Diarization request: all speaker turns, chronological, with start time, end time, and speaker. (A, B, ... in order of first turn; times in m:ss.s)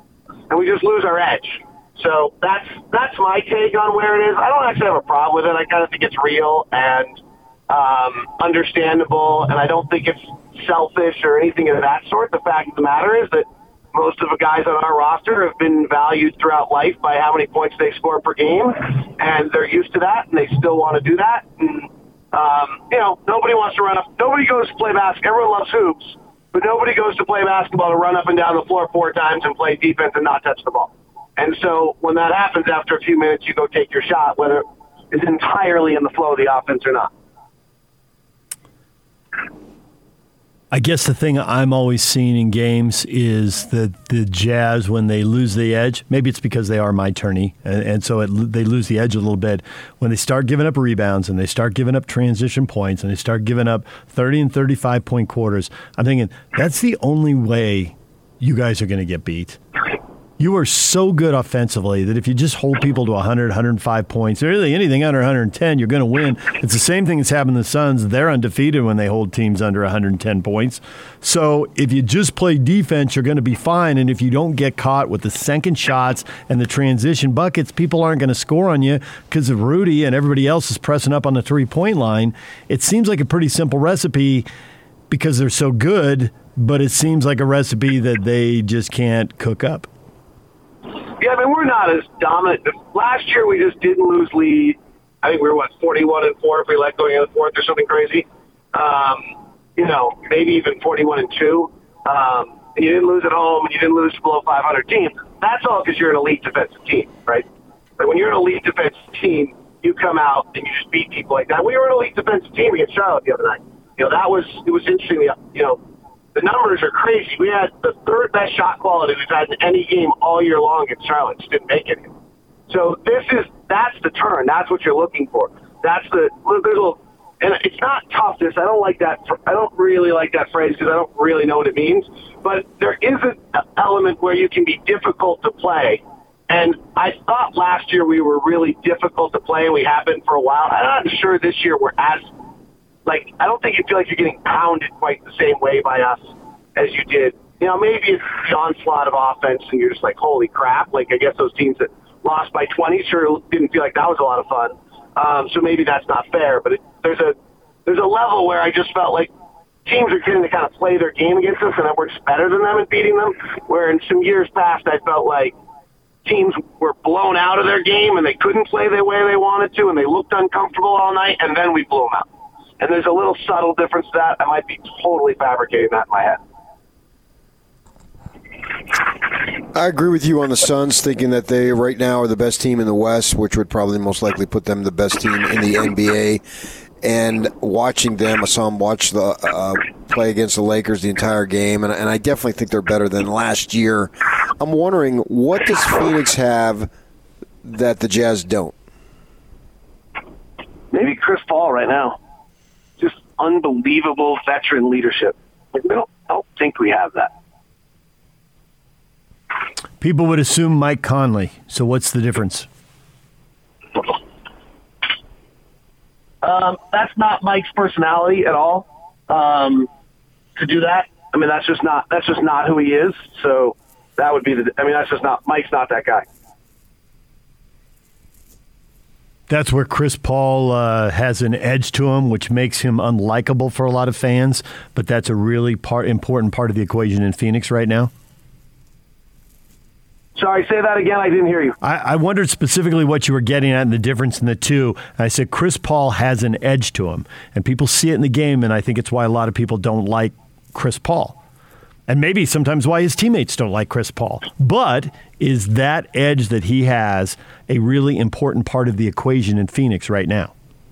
0:00.5-0:07.2 A
0:07.7-0:37.1 A
0:40.7-0:59.6 B
1:00.4-1:24.5 B
1:25.1-1:29.9 B
1:31.2-1:47.4 A
1:48.0-1:55.8 A
1:56.4-2:02.1 A
2:02.7-2:22.3 A
2:23.1-2:37.3 A
2:37.9-2:39.3 A
2:39.8-2:45.6 A
2:46.2-2:52.3 A
2:52.8-2:56.4 A
2:59.7-3:06.4 C
3:07.0-3:16.9 C
3:17.6-3:18.8 C
3:20.9-3:22.2 A
3:23.0-3:27.3 A
3:30.0-3:32.7 B
3:36.4-3:39.9 A
3:40.6-3:46.2 A
3:49.5-3:58.1 B
4:00.4-4:01.8 A
4:01.8-4:11.4 B
4:12.1-4:20.5 B